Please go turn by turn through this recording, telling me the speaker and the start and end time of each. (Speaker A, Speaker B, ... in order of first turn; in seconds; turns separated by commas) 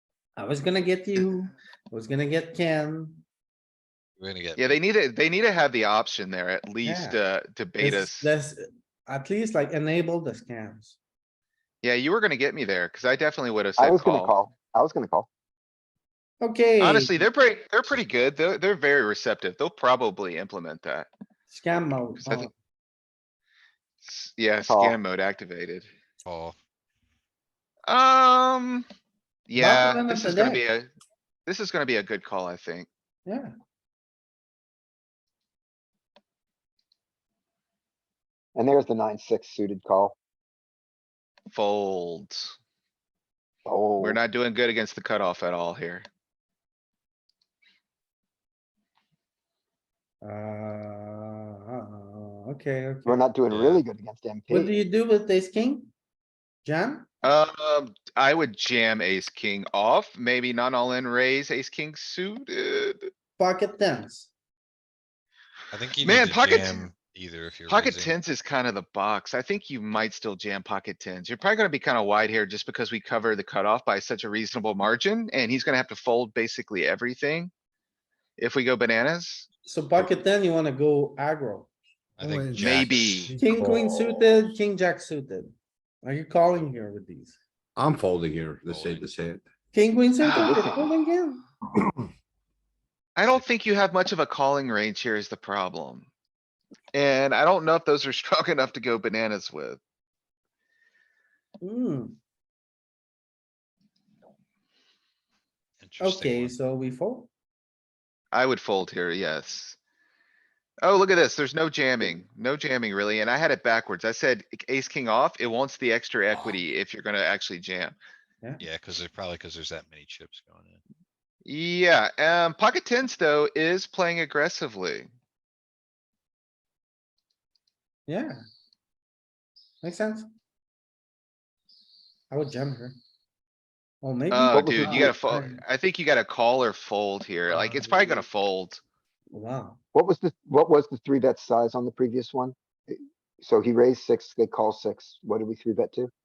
Speaker A: 0.3-3.2, Speaker B: 4.2-4.8, Speaker C: 4.6-8.3, Speaker A: 6.8-7.2, Speaker A: 7.8-11.0, Speaker C: 11.8-14.3, Speaker D: 13.8-15.3, Speaker A: 16.4-17.2, Speaker C: 16.8-21.1, Speaker A: 21.5-22.5, Speaker C: 22.2-22.5, Speaker C: 24.0-25.9, Speaker D: 24.7-25.0, Speaker B: 26.2-26.5, Speaker C: 27.9-28.9, Speaker C: 29.5-30.9, Speaker A: 29.6-30.6, Speaker C: 31.4-32.9, Speaker A: 33.2-33.5, Speaker D: 38.5-40.1, Speaker C: 41.5-42.5, Speaker D: 43.6-44.2, Speaker C: 44.0-46.0, Speaker A: 50.2-53.3, Speaker D: 53.0-54.8, Speaker B: 53.5-53.8, Speaker A: 54.5-55.9, Speaker A: 56.6-57.1, Speaker C: 57.2-63.1, Speaker A: 63.4-64.3, Speaker B: 65.7-68.1, Speaker C: 66.0-66.9, Speaker C: 67.7-77.5, Speaker C: 78.4-79.5, Speaker A: 79.6-81.7, Speaker B: 82.2-83.3, Speaker E: 82.2-84.1, Speaker C: 82.6-83.3, Speaker A: 83.3-85.5, Speaker A: 86.0-87.4, Speaker E: 87.8-89.4, Speaker B: 88.7-89.1, Speaker A: 89.7-91.4, Speaker C: 90.2-90.7, Speaker C: 93.2-96.1, Speaker C: 96.9-99.8, Speaker A: 101.6-102.2, Speaker B: 105.8-106.5, Speaker A: 106.0-107.3, Speaker C: 108.3-109.8, Speaker C: 110.8-118.0, Speaker B: 118.6-120.8, Speaker C: 121.4-125.1, Speaker A: 128.1-128.4, Speaker A: 129.8-130.3, Speaker A: 132.3-133.0, Speaker A: 134.0-135.6, Speaker C: 134.3-138.8, Speaker D: 134.5-135.2, Speaker A: 137.5-138.2, Speaker A: 139.3-139.8, Speaker D: 139.9-146.1